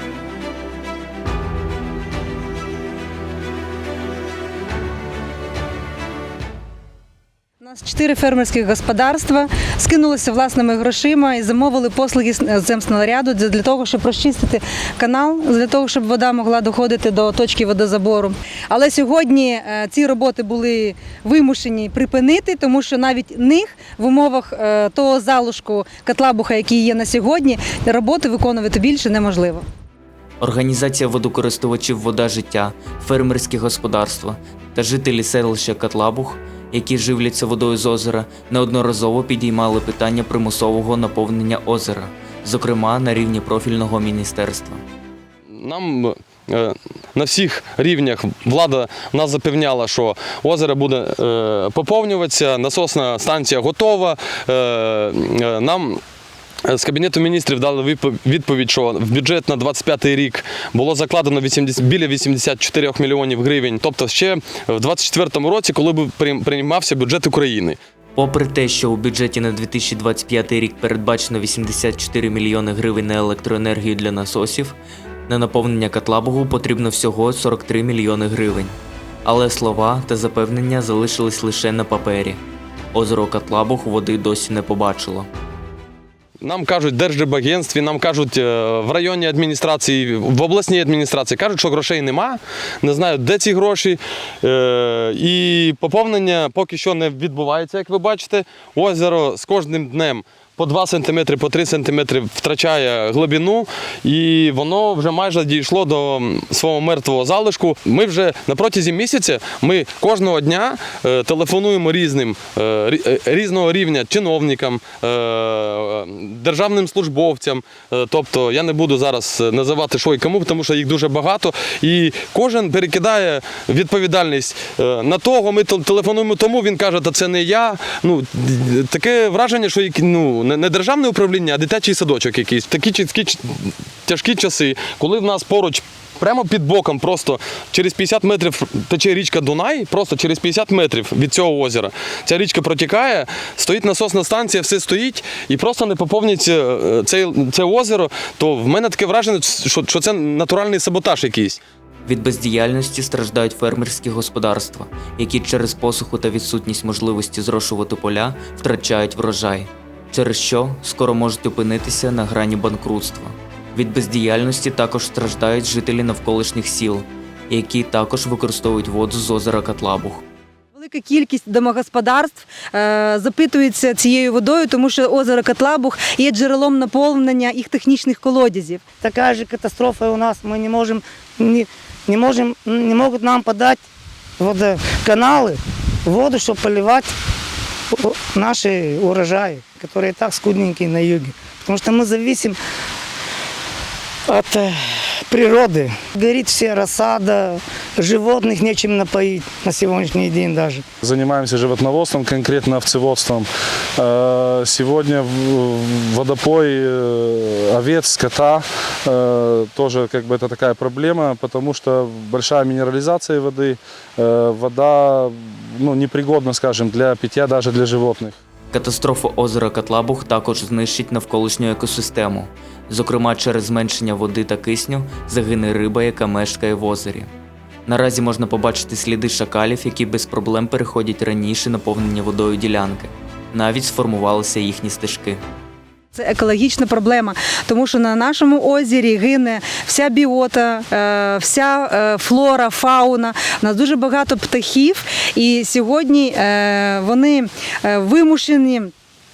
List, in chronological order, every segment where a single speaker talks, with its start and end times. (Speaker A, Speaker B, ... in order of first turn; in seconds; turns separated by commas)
Speaker A: 7.6-29.6, Speaker B: 30.4-44.8, Speaker C: 45.6-56.0, Speaker C: 56.7-67.8, Speaker B: 68.2-74.8, Speaker B: 75.3-82.4, Speaker B: 82.9-85.3, Speaker C: 86.4-151.6, Speaker B: 152.1-170.2, Speaker A: 170.7-178.8, Speaker D: 179.0-183.8, Speaker D: 184.4-187.1, Speaker D: 187.9-192.6, Speaker D: 194.3-200.8, Speaker E: 201.0-203.5, Speaker E: 204.0-218.4, Speaker B: 218.7-227.3, Speaker B: 227.9-235.4, Speaker A: 236.1-248.9